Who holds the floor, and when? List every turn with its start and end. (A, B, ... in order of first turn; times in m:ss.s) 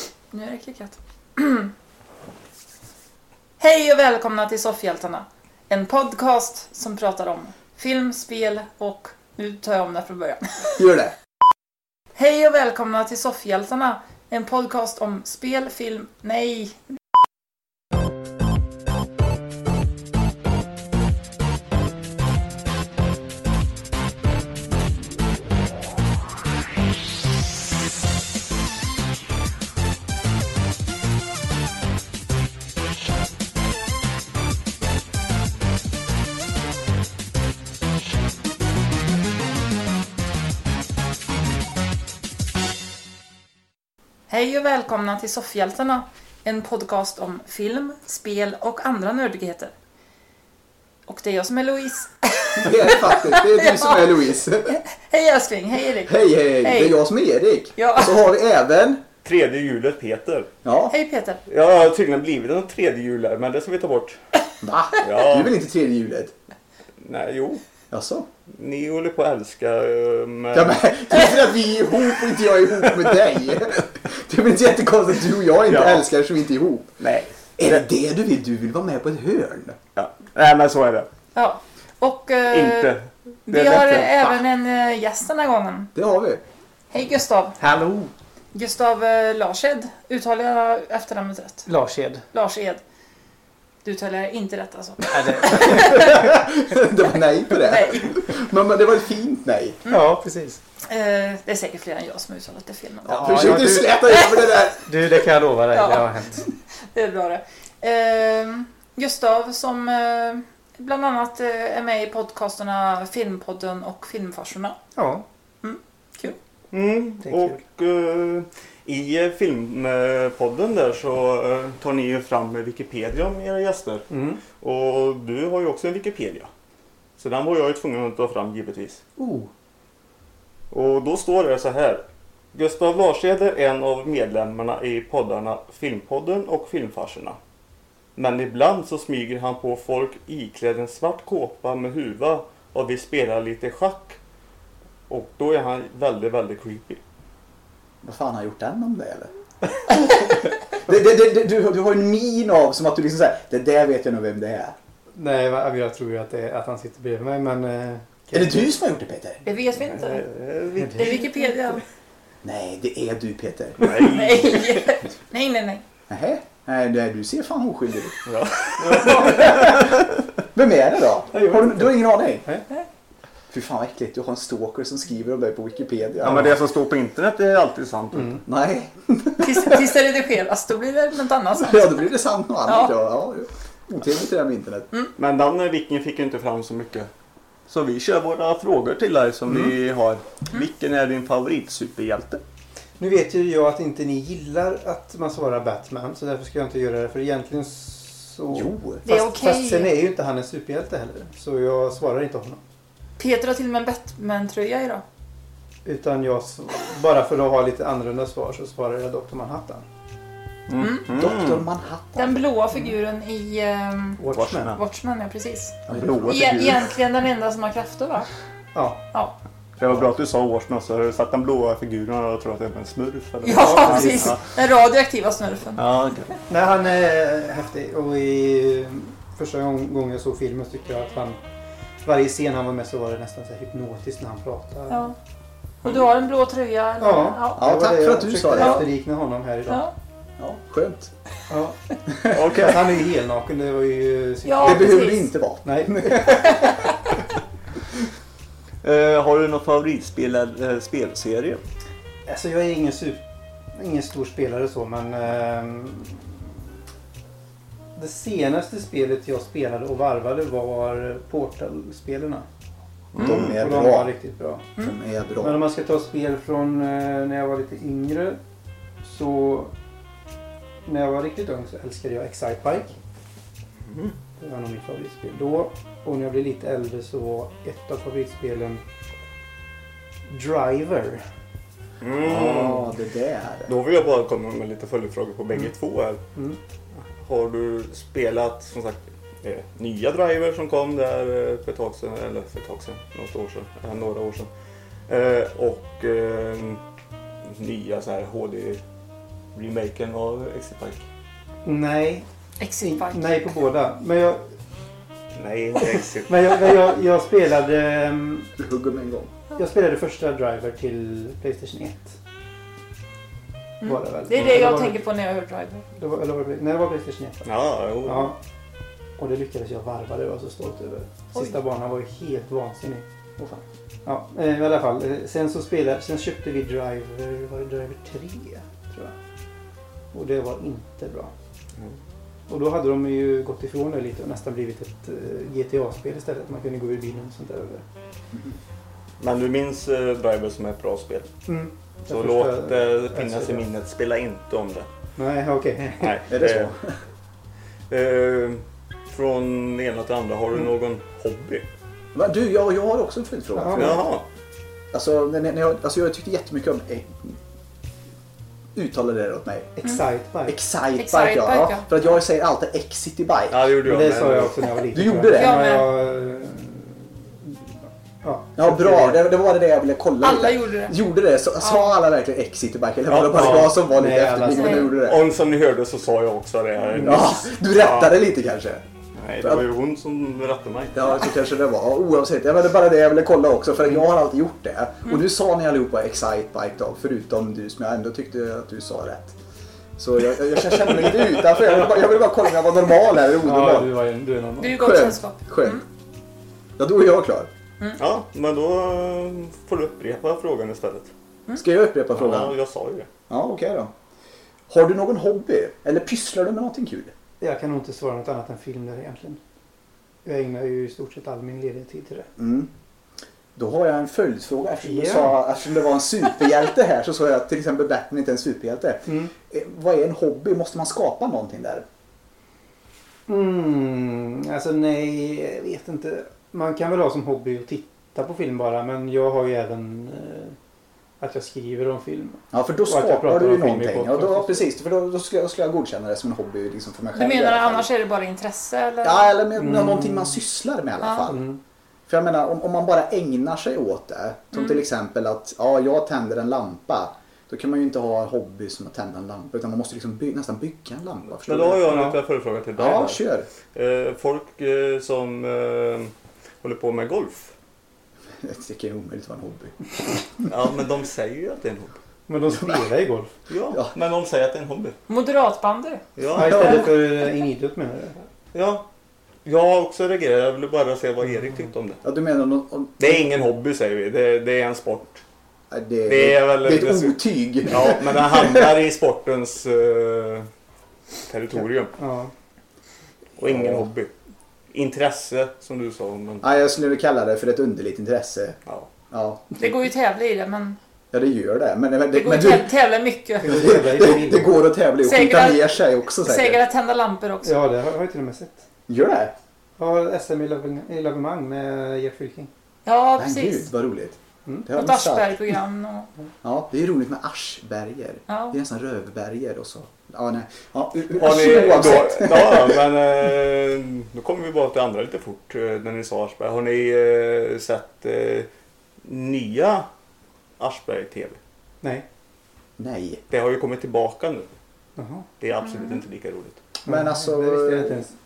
0:00.3-0:01.7 A
0:03.6-0:10.9 A
0:10.8-0:11.2 B
0:12.2-0:16.8 A
0:44.3-0:49.7 A
0:51.1-0:57.0 A
0:52.6-0:54.8 B
0:56.0-0:59.0 B
0:57.8-0:58.2 A
0:59.2-1:00.5 C
1:00.6-1:00.9 B
1:00.9-1:01.4 A
1:01.5-1:04.2 C
1:04.6-1:06.3 B
1:05.0-1:05.5 C
1:07.0-1:07.6 C
1:07.9-1:08.3 B
1:08.5-1:10.8 C
1:10.5-1:16.9 B
1:15.7-1:16.1 C
1:17.0-1:17.8 C
1:17.6-1:19.8 B
1:20.0-1:21.1 C
1:21.4-1:22.9 A
1:22.5-1:24.1 C
1:23.5-1:25.9 A
1:23.6-1:24.4 B
1:26.0-1:26.4 B
1:26.9-1:27.6 A
1:27.6-1:28.1 D
1:28.5-1:31.7 A
1:31.7-1:32.2 D
1:32.3-1:32.8 A
1:33.8-1:36.2 A
1:35.1-1:36.2 D
1:35.4-1:39.8 B
1:37.5-1:38.2 A
1:39.9-1:40.6 D
1:40.8-1:44.6 A
1:43.0-1:44.9 B
1:43.1-1:44.1 D
1:44.8-1:46.5 D
1:45.7-1:54.8 A
1:55.0-1:55.2 D
1:55.6-1:56.4 A
1:56.7-2:04.1 C
1:57.2-1:57.6 D
2:04.1-2:04.4 D
2:04.6-2:06.5 C
2:07.2-2:09.0 C
2:09.2-2:09.5 D
2:10.7-2:12.0 C
2:12.5-2:17.4 C
2:18.2-2:24.2 C
2:25.1-2:27.0 C
2:28.0-2:29.3 B
2:29.9-2:34.8 B
2:35.2-2:38.7 D
2:38.3-2:39.4 B
2:39.4-2:40.2 A
2:39.8-2:41.5 C
2:40.9-2:41.8 A
2:42.4-2:44.4 B
2:43.8-2:44.8 C
2:43.8-2:45.8 A
2:46.1-2:48.2 B
2:48.2-2:50.2 C
2:49.0-2:52.4 B
2:51.3-2:52.6 D
2:53.5-2:56.6 B
2:56.2-2:58.4 C
2:58.1-2:58.4 D
2:58.5-2:59.9 B
2:59.4-3:02.1 A
3:01.5-3:04.9 B
3:02.7-3:02.9 A
3:05.2-3:07.1 C
3:07.7-3:12.4 C
3:13.0-3:22.6 D
3:18.5-3:19.1 B
3:19.0-3:19.9 A
3:23.2-3:25.0 A
3:25.8-3:29.8 D
3:30.7-3:31.7 C
3:30.8-3:31.1 A
3:31.1-3:32.4 B
3:32.2-3:38.3 A
3:34.2-3:34.8 D
3:34.3-3:34.8 C
3:35.9-3:36.2 B
3:35.9-3:36.9 C
3:38.8-3:39.0 D
3:39.8-3:44.4 C
3:43.4-3:45.8 A
3:43.8-3:44.2 D
3:45.8-3:46.3 C
3:46.5-3:51.4 D
3:52.0-3:55.1 D
3:54.9-3:55.2 A
3:55.8-3:57.8 A
3:57.0-3:59.9 D
3:57.6-3:58.9 B
3:58.6-3:58.9 A
3:59.7-3:59.9 A
4:00.4-4:01.1 B
4:01.5-4:01.8 D
4:02.2-4:02.7 B
4:02.3-4:02.8 C
4:02.5-4:06.6 D
4:04.4-4:05.3 A
4:04.6-4:06.7 B
4:08.8-4:11.6 C
4:12.3-4:13.2 D
4:13.8-4:16.5 D
4:18.0-4:22.5 D
4:23.1-4:23.6 C
4:23.2-4:24.1 B
4:23.2-4:24.7 D
4:24.8-4:25.6 B
4:25.4-4:28.4 D
4:29.0-4:29.7 D
4:30.9-4:32.9 D
4:33.9-4:34.1 C
4:34.4-4:38.8 D
4:40.3-4:41.2 D
4:42.0-4:42.9 C
4:42.2-4:43.7 B
4:43.7-4:46.2 C
4:47.2-4:54.5 C
4:55.1-4:56.8 C
4:57.4-4:58.8 C
4:59.5-5:01.0 C
5:01.6-5:02.3 D
5:02.6-5:03.2 A
5:02.8-5:04.4 D
5:05.3-5:06.9 C
5:05.9-5:08.5 D
5:08.6-5:09.3 B
5:09.6-5:12.2 D
5:13.8-5:15.0 D
5:13.8-5:15.9 A
5:15.9-5:17.5 D
5:17.4-5:18.3 C
5:18.0-5:18.4 D
5:19.2-5:23.1 D
5:24.0-5:29.2 D
5:30.1-5:31.3 D
5:32.5-5:37.8 D
5:39.2-5:41.3 C
5:41.5-5:43.6 D
5:42.1-5:44.9 C
5:45.2-5:46.2 D
5:46.0-5:46.7 C
5:46.3-5:47.0 B
5:47.9-5:51.7 C
5:52.1-5:54.1 B
5:53.6-5:54.0 D
5:53.8-5:54.3 C
5:54.9-5:57.4 B
5:58.8-5:59.7 B
5:59.8-6:00.6 D
6:00.5-6:03.6 B
6:01.0-6:01.9 A
6:03.5-6:04.6 C
6:03.8-6:07.6 D
6:04.9-6:05.6 B
6:05.3-6:05.9 A
6:08.2-6:09.3 D
6:08.6-6:15.2 B
6:10.2-6:11.0 A
6:11.6-6:12.0 A
6:13.1-6:13.8 C
6:13.3-6:14.9 D
6:14.4-6:14.9 A
6:14.9-6:18.2 C
6:16.9-6:17.3 D
6:17.0-6:18.8 B
6:19.2-6:21.1 C
6:20.9-6:29.4 B
6:30.0-6:33.9 B
6:33.4-6:34.9 D
6:34.6-6:35.8 A
6:34.8-6:35.8 B
6:36.8-6:37.5 B
6:38.0-6:41.1 C
6:41.6-6:42.6 B
6:42.1-6:43.1 C
6:43.3-6:43.9 B
6:44.7-6:47.1 B
6:47.4-6:49.4 D
6:50.2-6:52.3 D
6:52.4-6:52.7 B
6:53.6-7:01.9 B
6:54.8-6:55.4 D
6:59.1-6:59.3 D
7:03.3-7:10.6 D
7:11.2-7:14.7 D
7:12.5-7:17.9 B
7:17.2-7:19.3 A
7:19.0-7:21.4 B
7:19.6-7:20.4 D
7:21.0-7:21.4 A
7:21.3-7:21.6 D
7:22.1-7:31.9 B
7:31.4-7:37.5 C
7:31.8-7:32.2 D
7:32.8-7:33.5 B
7:38.4-7:40.5 B
7:40.5-7:42.0 C
7:42.3-7:43.3 D
7:43.5-7:45.0 C
7:45.1-7:46.9 A
7:46.2-7:47.0 C
7:46.3-7:48.2 D
7:46.5-7:46.8 B
7:48.5-7:48.9 C
7:49.4-7:52.0 C
7:52.0-7:53.3 B
7:53.0-7:55.2 C
7:55.7-7:58.8 B
7:56.1-8:00.5 C
8:01.3-8:02.0 C
8:02.0-8:02.3 D
8:03.4-8:04.1 C
8:03.4-8:03.9 B
8:04.7-8:06.5 C
8:06.4-8:08.6 B
8:09.1-8:09.7 B
8:09.6-8:10.8 A
8:11.1-8:12.7 B
8:12.1-8:13.7 A
8:13.4-8:14.6 D
8:13.4-8:16.6 B
8:15.0-8:17.5 A
8:17.4-8:18.6 D
8:18.9-8:19.3 B
8:19.8-8:22.5 D
8:22.9-8:23.7 A
8:23.2-8:25.6 B
8:24.7-8:26.1 A
8:26.4-8:32.9 B
8:28.3-8:28.6 A
8:31.1-8:38.5 C
8:39.0-8:39.9 C
8:40.6-8:41.4 C
8:42.8-8:43.2 B
8:43.3-8:44.5 C
8:45.0-8:45.3 D
8:45.4-8:46.6 C
8:45.7-8:46.0 A
8:46.8-8:48.1 B
8:46.9-8:48.1 D